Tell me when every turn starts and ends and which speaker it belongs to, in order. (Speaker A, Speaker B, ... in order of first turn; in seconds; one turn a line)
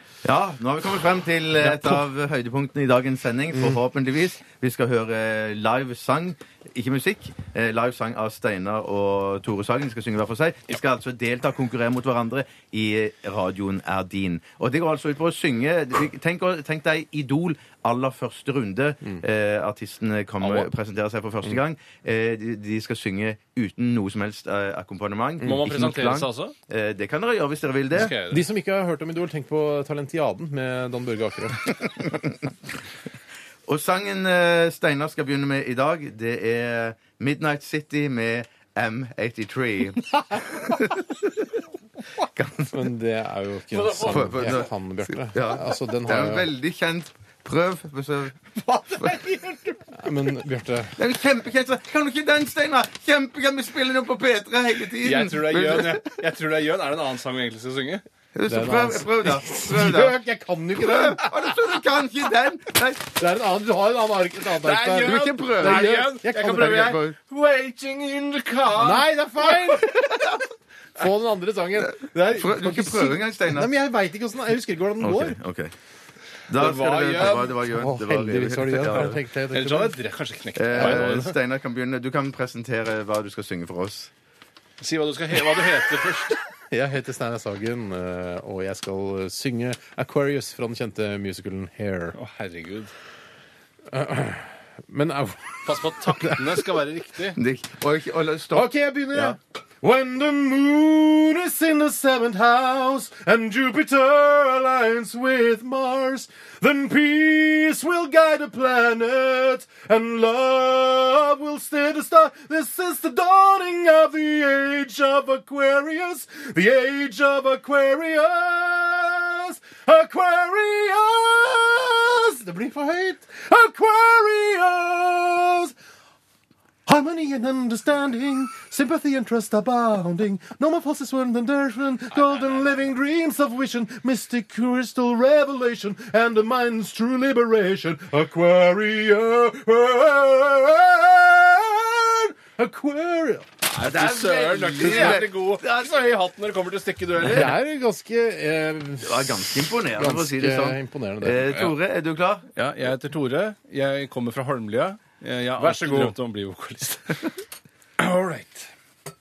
Speaker A: 0.2-28.1
Speaker B: 1.6-2.0
Speaker C: 20.4-20.7
Speaker C: 25.4-26.5
Speaker C: 27.9-28.4
Speaker B: 28.2-31.8
Speaker A: 33.7-41.5
Speaker A: 42.2-42.8
Speaker B: 42.7-46.5
Speaker C: 43.7-44.6
Speaker A: 44.0-49.2
Speaker C: 48.6-49.9
Speaker B: 49.9-51.0
Speaker A: 51.0-56.1
Speaker C: 55.0-58.0
Speaker A: 58.3-60.2
Speaker B: 58.5-61.6
Speaker A: 60.8-63.1
Speaker B: 63.2-66.9
Speaker C: 64.6-69.8
Speaker A: 64.9-67.2
Speaker B: 68.8-69.9
Speaker A: 70.1-70.3
Speaker B: 71.0-75.4
Speaker A: 72.0-73.7
Speaker A: 75.0-75.7
Speaker A: 76.5-79.2
Speaker C: 76.5-77.6
Speaker B: 77.7-80.0
Speaker C: 78.8-81.4
Speaker A: 80.5-84.1
Speaker B: 80.8-81.1
Speaker C: 84.8-86.4
Speaker B: 86.7-92.2
Speaker C: 92.2-92.9
Speaker B: 93.9-96.6
Speaker C: 95.7-97.4
Speaker A: 97.3-99.4
Speaker B: 98.5-125.7
Speaker B: 126.9-143.5
Speaker C: 143.7-147.6
Speaker A: 143.8-145.9
Speaker B: 144.6-145.3
Speaker B: 147.2-151.5
Speaker A: 149.0-152.5
Speaker C: 151.5-151.7
Speaker C: 152.6-157.4
Speaker B: 155.6-156.2
Speaker C: 158.0-158.7